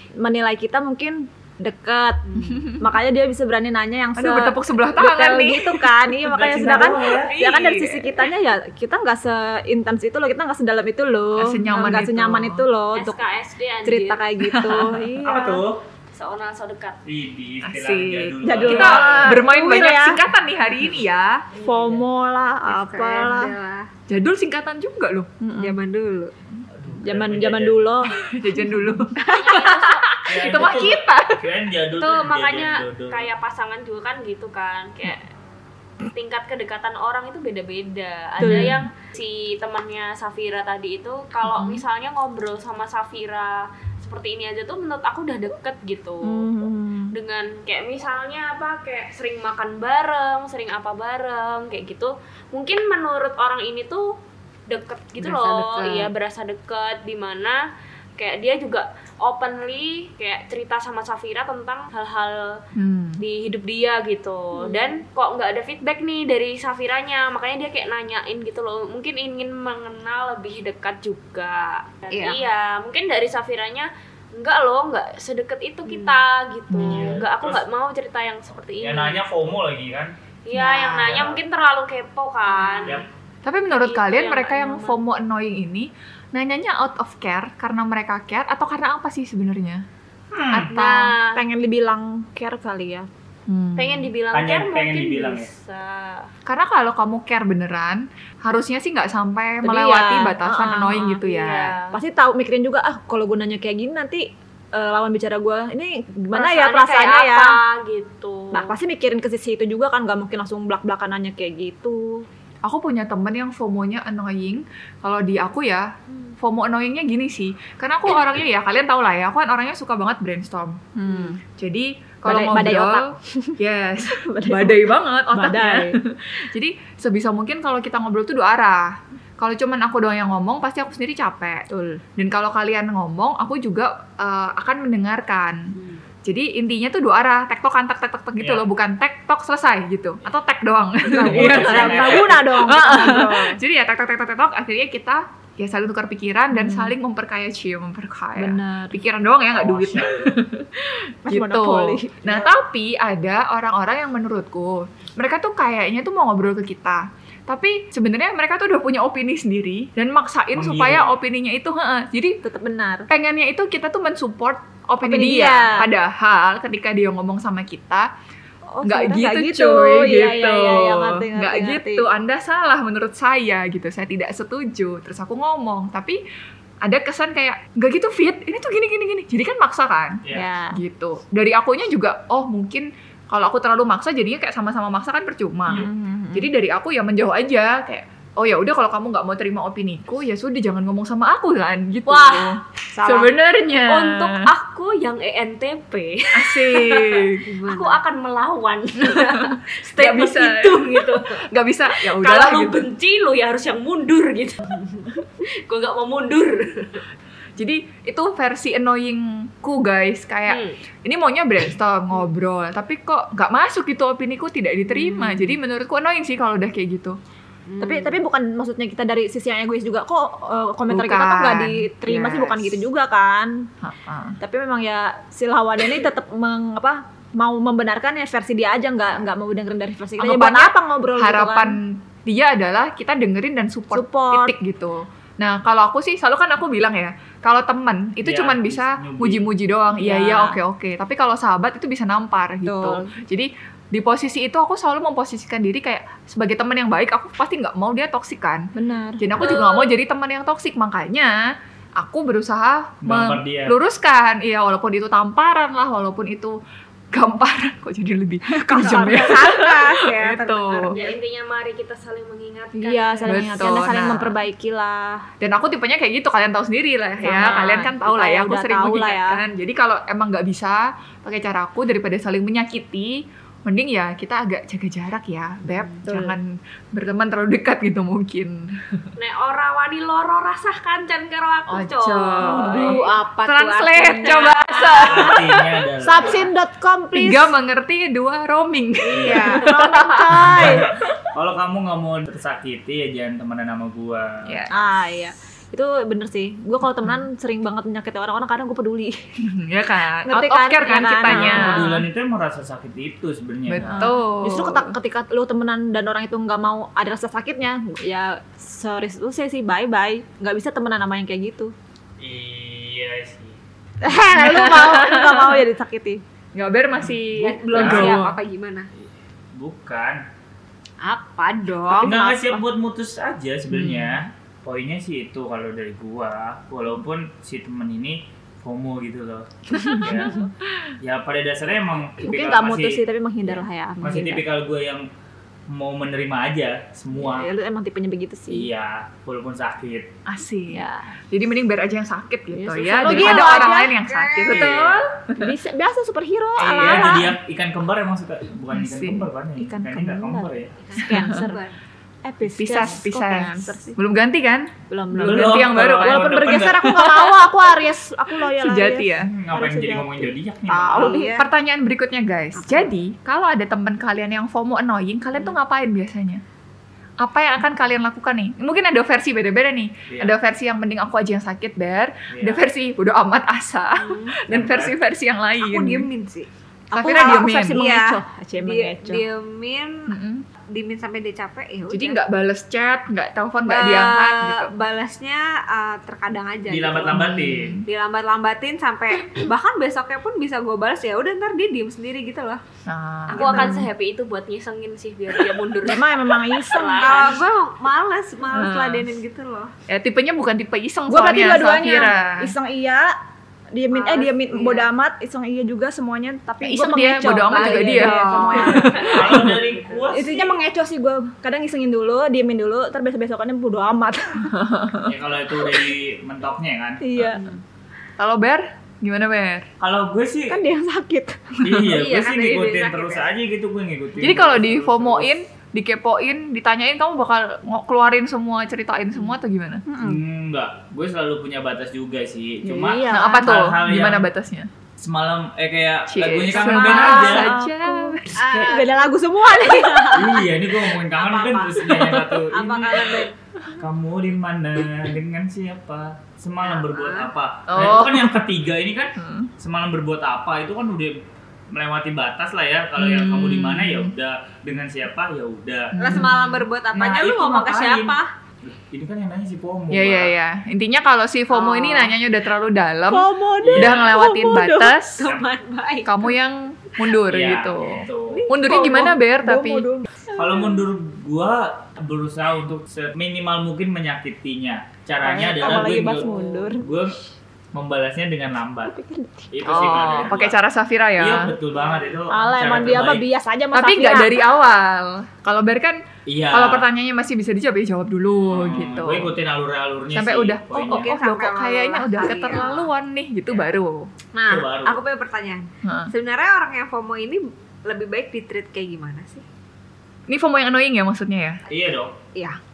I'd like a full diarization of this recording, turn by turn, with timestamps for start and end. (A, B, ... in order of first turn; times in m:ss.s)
0:00.2-0:13.2 A
0:02.3-0:02.7 B
0:04.2-0:05.8 C
0:06.2-0:07.4 D
0:06.6-0:08.2 C
0:11.4-0:12.6 C
0:13.0-0:14.2 E
0:13.8-0:15.6 A
0:14.4-0:15.0 C
0:15.2-0:15.8 D
0:16.1-0:17.0 E
0:17.0-0:19.4 D
0:17.6-0:21.4 C
0:18.4-0:20.2 A
0:21.6-0:22.0 B
0:21.6-0:23.6 A
0:22.7-0:23.9 B
0:24.1-0:25.3 C
0:25.4-0:25.8 A
0:25.6-0:26.3 B
0:26.7-0:28.0 D
0:27.0-0:29.0 A
0:28.2-0:31.4 C
0:29.2-0:30.9 E
0:30.2-0:33.3 D
0:32.0-0:35.3 E
0:36.0-0:46.5 E
0:38.4-0:38.8 A
0:38.4-0:38.8 C
0:46.2-0:47.2 A
0:47.1-0:54.1 E
0:54.7-0:57.6 E
0:55.2-0:56.1 B
0:58.2-1:02.6 E
1:02.8-1:03.2 C
1:03.2-1:19.2 E
1:04.6-1:05.0 B
1:12.1-1:12.4 B
1:15.9-1:16.2 B
1:16.7-1:17.2 C
1:16.8-1:17.6 D
1:18.8-1:20.1 D
1:20.5-1:23.0 E
1:20.5-1:21.1 B
1:21.0-1:21.4 D
1:22.5-1:23.1 B
1:23.4-1:29.8 C
1:23.7-1:25.0 E
1:30.3-1:30.7 D
1:30.5-1:31.1 C
1:30.7-1:31.4 E
1:31.3-1:33.1 A
1:33.5-1:34.1 C
1:33.8-1:36.3 E
1:34.3-1:35.5 D
1:36.5-1:41.8 C
1:39.6-1:41.2 A
1:41.0-1:42.0 E
1:41.9-1:47.6 A
1:46.3-1:48.8 E
1:48.5-1:52.2 A
1:52.6-2:00.8 C
2:01.0-2:01.4 A
2:01.6-2:42.4 C
2:02.2-2:06.0 A
2:11.7-2:12.0 A
2:15.8-2:16.0 B
2:18.4-2:18.7 D
2:21.0-2:23.6 A
2:21.2-2:22.5 D
2:26.5-2:26.9 A
2:28.4-2:29.0 A
2:29.5-2:30.4 D
2:31.2-2:32.5 A
2:40.5-2:41.1 D
2:42.4-2:43.1 A
2:43.1-2:48.1 C
2:45.0-2:45.9 A
2:48.7-2:52.1 A
2:48.8-2:56.2 C
2:56.8-3:00.2 C
3:00.2-3:00.5 D
3:00.3-3:00.8 A
3:00.7-3:14.5 C
3:05.7-3:06.5 A
3:12.1-3:12.6 E
3:13.0-3:13.3 A
3:13.7-3:21.4 E
3:16.3-3:17.4 C
3:17.5-3:18.0 B
3:19.0-3:22.8 C
3:21.9-3:27.0 E
3:27.6-3:37.2 C
3:30.5-3:30.8 E
3:34.9-3:35.6 A
3:37.7-3:38.2 B
3:37.8-3:43.7 A
3:40.9-3:41.9 C
3:42.1-3:42.8 B
3:43.8-3:44.4 C
3:44.4-3:51.8 A
3:50.2-4:11.4 C
3:53.9-3:54.6 A
3:58.2-3:59.5 D
4:00.0-4:00.6 A
4:02.6-4:03.1 A
4:08.8-4:09.3 A
4:09.4-4:09.9 E
4:12.0-4:16.6 C
4:13.0-4:13.8 D
4:17.1-4:20.9 C
4:18.5-4:19.7 A
4:18.8-4:21.2 B
4:20.9-4:23.7 E
4:22.8-4:25.3 A
4:23.3-4:24.4 C
4:25.4-4:38.7 C
4:27.2-4:29.4 A
4:35.7-4:36.0 B
4:36.1-4:36.4 A
4:39.2-4:42.9 E
4:41.7-4:45.7 C
4:42.4-4:44.9 B
4:42.5-4:43.0 A
4:45.0-4:46.5 D
4:46.0-4:47.5 A
4:47.1-4:51.1 C
4:49.1-4:49.9 B
4:49.1-4:49.6 D
4:49.5-4:50.9 A
4:50.4-4:54.6 D
4:54.5-4:54.7 C
4:54.7-4:59.2 A
4:59.4-5:02.0 C
5:00.2-5:02.0 A
5:01.3-5:04.1 D
5:03.7-5:05.0 C
5:03.8-5:11.7 A
5:12.2-5:13.6 D
5:14.0-5:16.2 A
5:14.3-5:15.6 C
5:16.5-5:18.4 C
5:17.4-5:18.9 B
5:17.7-5:18.2 D
5:19.0-5:20.2 D
5:21.0-5:22.6 B
5:21.9-5:22.3 A
5:22.0-5:30.4 D
5:31.0-5:33.1 D
5:32.2-5:34.4 A
5:34.0-5:35.1 D
5:35.7-5:37.5 D
5:37.1-5:38.7 A
5:38.5-5:40.1 D
5:40.3-5:45.5 C
5:40.7-5:41.1 A
5:42.5-5:44.0 A
5:43.0-5:44.8 B
5:44.4-5:45.1 D
5:45.4-5:47.4 A
5:46.6-5:50.8 D
5:46.6-5:47.3 C
5:48.7-5:49.3 C
5:49.6-5:51.6 A
5:50.8-5:51.8 B
5:52.2-5:54.0 A
5:52.4-5:57.5 C
5:54.9-6:01.4 A
5:55.2-5:57.1 D
5:58.5-5:59.3 C
5:59.2-6:01.2 D
6:00.7-6:01.5 B
6:01.3-6:06.4 C
6:02.6-6:02.9 B
6:07.2-6:16.1 C
6:10.1-6:10.4 D
6:12.3-6:12.6 D
6:14.0-6:14.4 B
6:14.5-6:15.0 D
6:15.6-6:16.5 B
6:16.9-6:17.9 C
6:16.9-6:19.3 A
6:17.1-6:18.1 B
6:18.6-6:20.1 B
6:20.1-6:20.4 C
6:20.7-6:22.2 B
6:21.9-6:24.7 C
6:23.7-6:32.6 B
6:26.7-6:27.8 D
6:27.1-6:27.8 C
6:32.9-6:33.9 C
6:33.3-6:37.4 E
6:33.4-6:33.7 B
6:35.8-6:37.3 A
6:37.0-6:39.7 B
6:38.5-6:39.1 C
6:39.9-6:42.5 C
6:41.1-6:43.1 A
6:43.7-6:49.1 A
6:43.9-6:44.9 B
6:46.6-6:49.5 C
6:48.1-6:48.6 B
6:48.8-6:50.5 D
6:50.1-6:54.6 A
6:54.6-6:55.1 C
6:55.0-6:57.4 D
6:57.0-6:57.5 A
6:58.2-6:59.7 C
6:59.8-7:00.6 D
7:00.5-7:02.0 A
7:01.6-7:05.4 D
7:01.9-7:03.0 E
7:02.0-7:03.2 B
7:04.2-7:09.8 C
7:09.9-7:10.2 A
7:10.0-7:14.3 D
7:12.6-7:13.6 A
7:13.1-7:14.7 C
7:15.0-7:17.6 D
7:16.1-7:18.4 C
7:16.5-7:20.7 A
7:18.4-7:18.9 B
7:20.1-7:36.0 D
7:21.1-7:23.3 B
7:21.9-7:22.5 A
7:26.6-7:27.3 B
7:27.7-7:28.5 C
7:29.2-7:29.5 C
7:33.0-7:34.1 C
7:35.9-7:37.2 C
7:36.0-7:38.3 B
7:37.0-7:40.3 D
7:39.9-7:45.3 C
7:41.5-7:42.1 B
7:43.1-7:45.0 A
7:43.6-7:44.2 D
7:45.2-7:46.3 B
7:46.0-7:49.9 C
7:47.2-7:48.5 D
7:48.3-7:49.1 B
7:48.5-7:50.3 A
7:50.4-7:57.2 D
7:55.2-7:56.9 A
7:55.7-7:55.9 B
7:57.7-7:59.0 D
7:58.9-8:00.3 A
7:59.5-8:00.6 D
7:59.6-8:01.5 C
8:01.2-8:03.3 D
8:01.8-8:02.2 B
8:02.3-8:04.4 A
8:03.7-8:06.0 C
8:06.3-8:06.9 D
8:06.5-8:09.4 C
8:08.5-8:11.2 D
8:10.1-8:14.1 C
8:10.7-8:12.9 B
8:14.3-8:19.4 B
8:14.5-8:15.0 D
8:15.8-8:16.1 C
8:20.3-8:21.6 C
8:21.7-8:22.2 D